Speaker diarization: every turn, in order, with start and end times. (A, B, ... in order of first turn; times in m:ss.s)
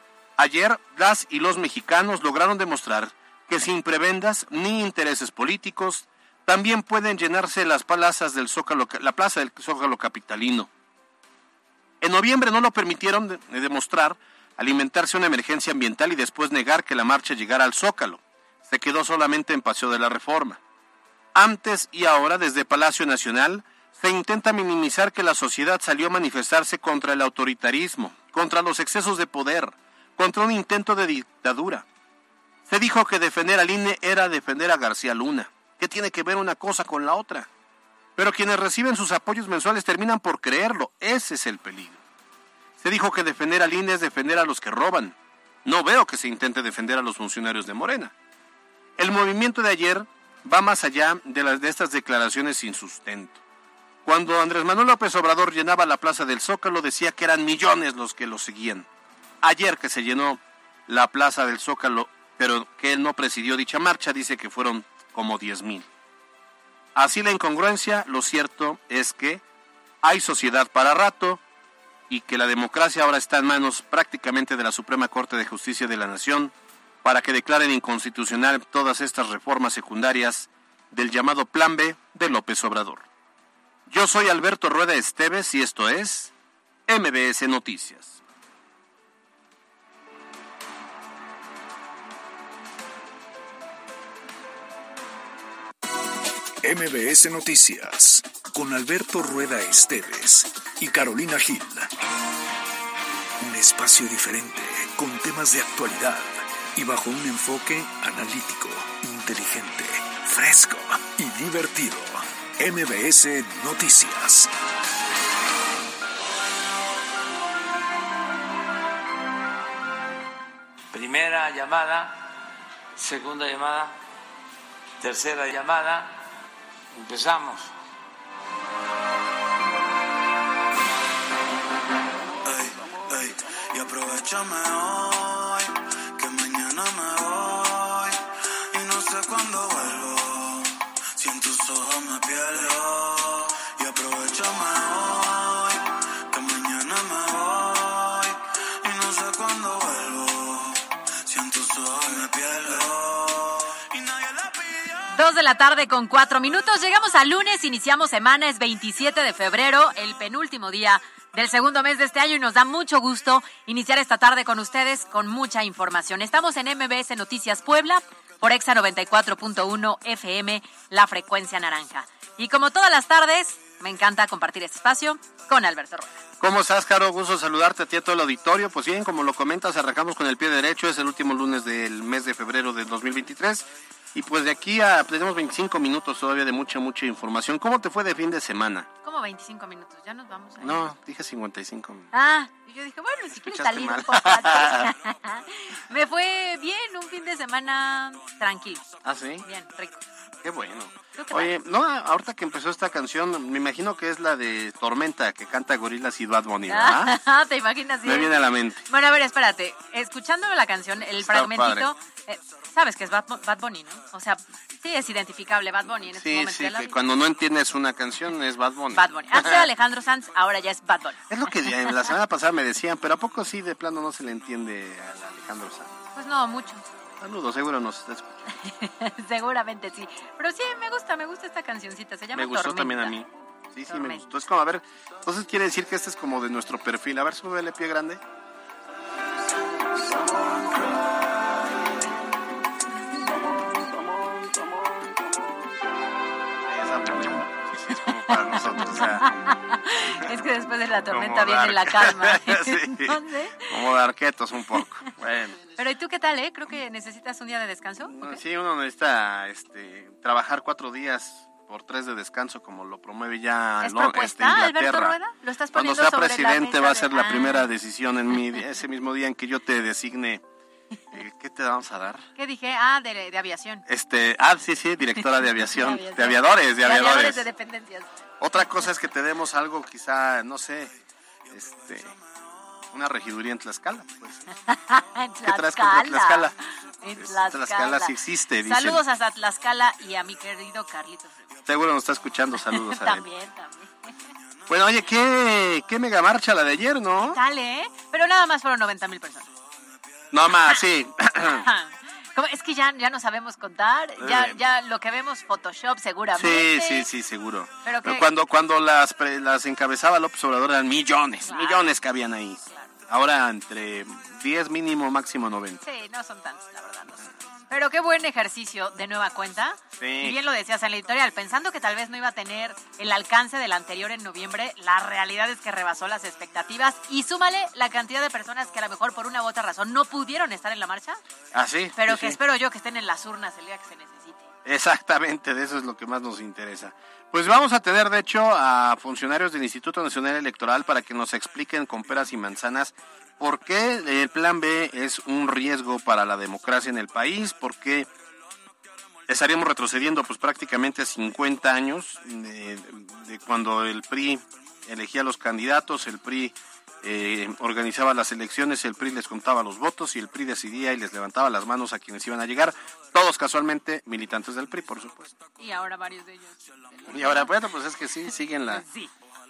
0:00.4-0:10.7 A
0:12.0-0:20.6 A
0:21.3-0:31.8 A
0:32.7-0:37.5 A
0:38.2-0:42.0 A
0:42.8-0:48.1 A
0:49.0-0:53.4 A
0:54.0-0:58.9 A
0:59.4-1:05.9 A
1:07.0-1:09.4 A
1:10.0-1:11.4 A
1:12.1-1:16.5 A
1:17.0-1:23.1 A
1:23.9-1:26.3 A
1:26.9-1:28.2 A
1:36.6-1:41.9 B
1:43.4-1:54.5 B
2:00.9-2:02.2 C
2:03.0-2:03.9 C
2:05.0-2:06.2 C
2:06.9-2:07.7 C
2:12.4-2:18.2 D
2:18.7-2:35.0 D
2:35.1-2:56.2 E
2:56.4-3:08.9 A
3:09.0-3:10.9 E
3:10.6-3:12.1 A
3:12.1-3:18.9 E
3:13.3-3:14.9 A
3:19.0-3:19.5 A
3:19.4-3:20.0 E
3:20.4-3:27.2 A
3:21.2-3:21.5 E
3:26.7-3:37.0 E
3:28.0-3:28.9 A
3:31.1-3:31.9 A
3:36.1-3:39.7 A
3:38.9-3:42.0 E
3:41.3-3:45.9 A
3:46.1-3:46.9 E
3:47.2-3:48.6 A
3:48.6-3:53.2 E
3:52.3-3:58.2 A
3:53.9-3:54.2 E
4:00.3-4:00.6 D
4:04.2-4:05.0 D
4:06.7-4:09.3 A
4:08.3-4:13.7 E
4:11.1-4:15.7 A
4:15.8-4:18.4 E
4:18.1-4:25.2 A
4:23.8-4:27.7 E
4:25.7-4:30.4 A
4:31.1-4:32.3 A
4:32.4-4:33.8 E
4:33.9-4:37.5 A
4:35.7-4:38.1 E
4:38.4-4:40.9 A
4:41.5-4:42.2 A
4:42.9-4:44.5 A
4:44.7-4:51.4 E
4:45.4-4:46.5 A
4:47.2-4:49.0 A
4:51.7-4:53.3 A
4:52.6-4:53.9 E
4:54.7-4:57.4 A
4:57.2-4:59.5 E
5:00.3-5:01.7 A
5:01.5-5:07.1 E
5:04.2-5:04.6 A
5:06.3-5:15.8 A
5:07.8-5:08.3 E
5:11.4-5:11.9 E
5:15.8-5:31.2 E
5:20.0-5:20.4 A
5:31.5-5:32.4 A
5:32.0-5:34.5 E
5:34.6-5:48.1 A
5:49.3-6:05.3 A
6:05.6-6:07.6 E
6:07.1-6:08.8 A
6:08.7-6:09.1 E